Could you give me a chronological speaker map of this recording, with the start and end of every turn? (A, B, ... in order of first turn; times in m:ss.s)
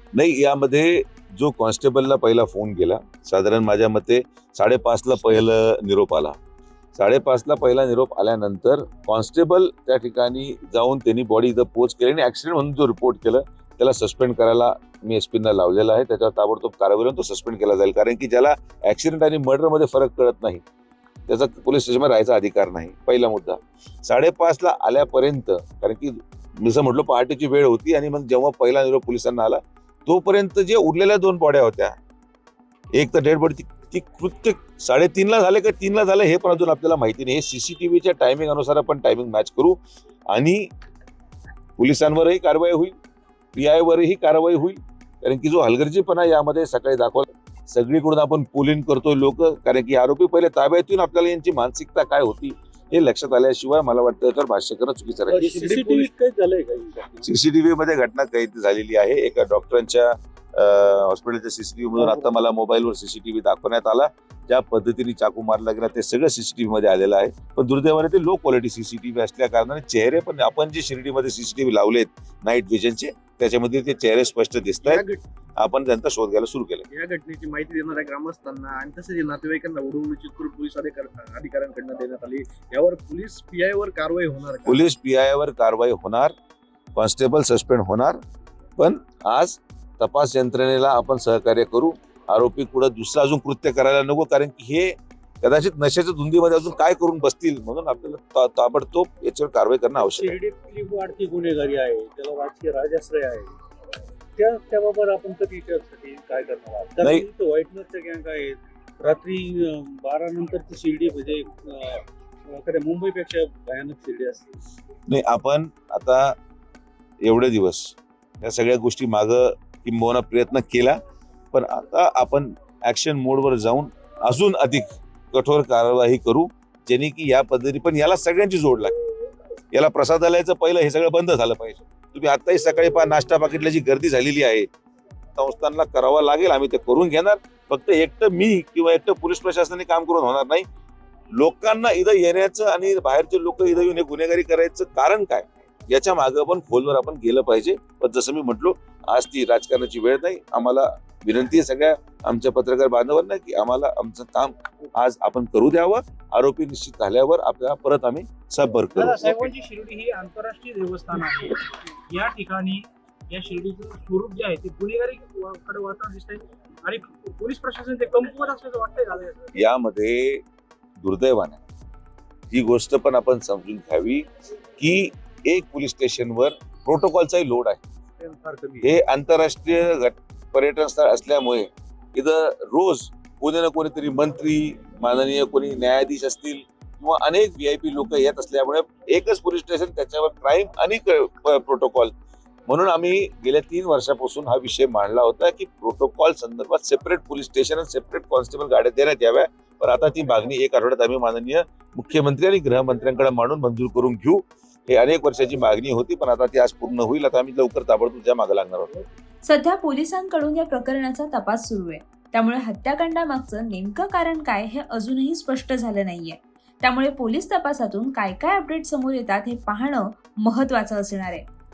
0:00.1-0:06.4 A
0:07.0-0:20.6 A
0:21.3-0:32.0 A
0:32.9-0:40.7 A
0:41.8-0:43.0 A
0:43.6-0:55.7 A
0:55.3-0:57.3 B
0:55.6-0:56.1 C
0:57.2-1:15.0 A
1:14.8-1:15.2 C
1:15.6-1:16.9 A
1:16.9-1:24.8 C
1:24.6-1:26.3 A
1:27.0-1:28.2 A
1:28.8-1:40.4 A
1:40.0-1:43.5 B
1:44.4-1:54.6 B
1:47.0-1:47.3 A
1:55.1-1:56.4 A
1:57.2-2:01.0 A
2:01.5-2:08.9 A
2:09.7-2:14.7 A
2:15.4-2:20.7 A
2:21.3-2:39.4 A
2:39.0-2:49.5 D
2:49.6-2:50.4 A
2:51.0-2:51.6 A
2:52.5-2:54.3 A
2:54.8-2:57.8 A
2:58.2-2:58.9 C
2:58.8-3:12.1 A
3:12.7-3:28.9 A
3:29.4-3:41.4 E